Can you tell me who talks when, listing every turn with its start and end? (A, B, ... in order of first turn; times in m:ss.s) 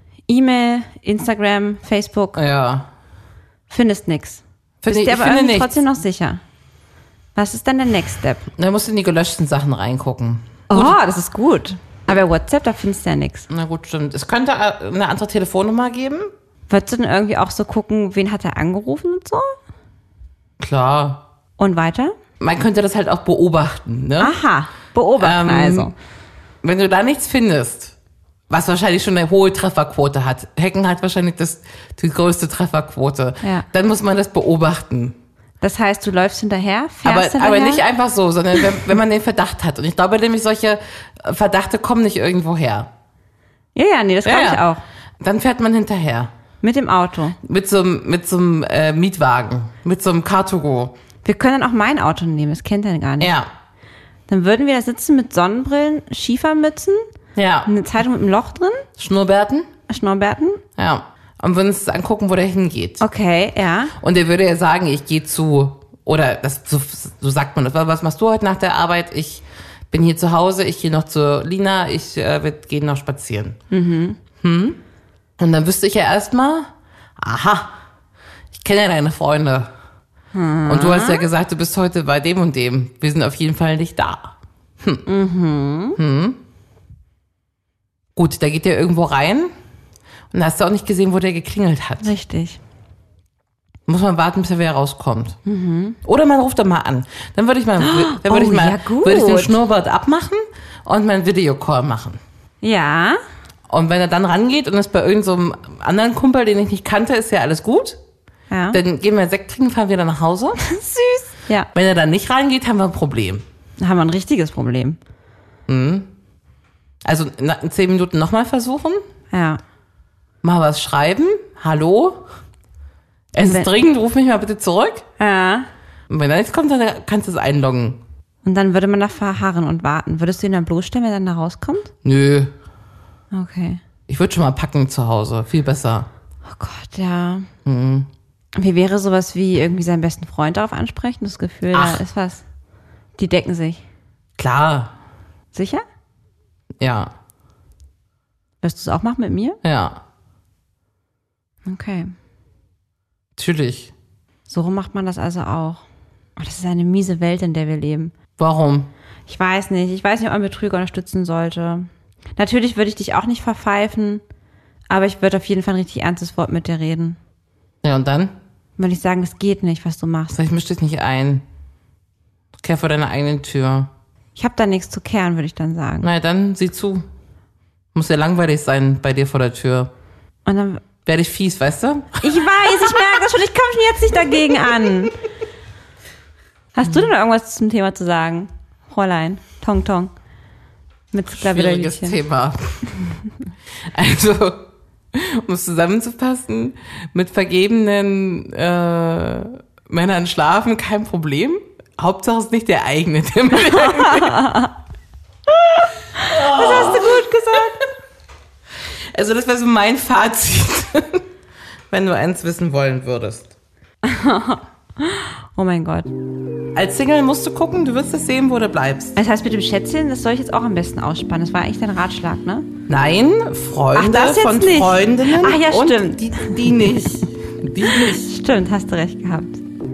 0:00.3-0:02.4 A
0:02.4-0:02.9 B
0:03.7-0:06.4 A
0:04.8-0:05.8 B
0:07.4-0:08.5 A
0:08.6-0:11.0 B
0:10.7-0:13.5 A
0:13.5-0:16.3 B
0:16.7-0:19.5 A
0:20.6-0:21.2 B
0:21.6-0:22.1 A
0:22.4-0:24.4 B
0:24.2-0:25.9 A
0:25.2-0:25.9 B
0:26.6-0:28.0 B
0:28.5-0:35.2 B
0:33.4-0:33.7 A
0:35.6-0:37.8 A
0:37.0-0:42.9 B
0:43.8-0:44.8 A
0:44.2-0:44.6 B
0:45.2-0:46.3 B
0:46.6-0:47.4 A
0:47.4-0:51.0 B
0:51.2-0:53.4 A
0:53.2-0:53.5 B
0:54.3-0:57.1 A
0:57.4-0:57.7 B
0:57.7-0:58.9 A
0:59.0-0:59.7 B
0:59.9-1:00.6 A
1:00.8-1:03.0 B
1:03.0-1:03.9 A
1:04.0-1:13.6 B
1:13.7-1:14.2 A
1:14.4-1:14.8 B
1:15.4-1:17.8 B
1:18.5-1:19.7 B
1:20.3-1:21.2 A
1:20.7-1:25.1 B
1:25.1-1:26.0 A
1:26.0-1:26.4 B
1:28.2-1:29.5 B
1:30.3-1:32.1 B
1:32.0-1:32.6 A
1:33.9-1:35.4 B
1:35.5-1:36.0 A
1:36.0-1:42.2 B
1:37.8-1:39.6 A
1:42.6-1:43.2 A
1:43.7-1:48.0 B
1:48.5-1:48.8 A
1:48.7-1:50.6 B
1:50.6-1:51.7 A
1:51.7-1:53.4 B
1:53.8-1:55.0 A
1:55.7-1:56.1 B
1:57.0-1:59.0 B
1:59.3-1:59.6 A
2:00.4-2:02.2 B
2:03.3-2:05.0 B
2:03.4-2:03.7 A
2:05.2-2:05.7 A
2:06.1-2:08.0 B
2:08.4-2:11.9 A
2:12.0-2:12.5 B
2:13.3-2:13.8 A
2:14.1-2:16.1 B
2:16.5-2:17.5 A
2:17.6-2:18.1 B
2:18.6-2:22.4 A
2:21.7-2:22.0 B
2:23.2-2:23.8 A
2:24.4-2:25.0 B
2:25.5-2:25.8 A
2:26.8-2:27.1 B
2:28.6-2:29.6 A
2:29.6-2:30.0 B
2:31.6-2:32.1 A
2:33.4-2:33.9 B
2:34.5-2:35.8 A
2:36.4-2:38.1 A
2:38.4-2:38.9 B
2:39.3-2:44.2 A
2:44.9-2:47.2 A
2:47.8-2:48.4 B
2:48.8-2:50.4 A
2:50.3-2:51.4 B
2:52.6-2:53.9 B
2:54.4-2:56.1 A
2:56.0-2:57.1 B
2:57.9-2:59.9 B
3:00.5-3:00.8 A
3:01.1-3:03.0 B
3:02.2-3:05.2 A
3:06.8-3:10.1 A
3:06.8-3:07.1 B
3:11.1-3:12.2 A
3:11.3-3:13.0 B
3:13.9-3:24.7 B
3:24.1-3:24.7 A
3:26.2-3:27.8 A
3:26.2-3:27.8 B
3:29.1-3:31.2 B
3:31.9-3:33.5 B
3:34.0-3:36.1 A
3:36.7-3:39.2 B
3:39.2-3:42.7 A
3:42.9-3:48.3 B
3:44.0-3:47.3 A
3:47.9-3:49.6 A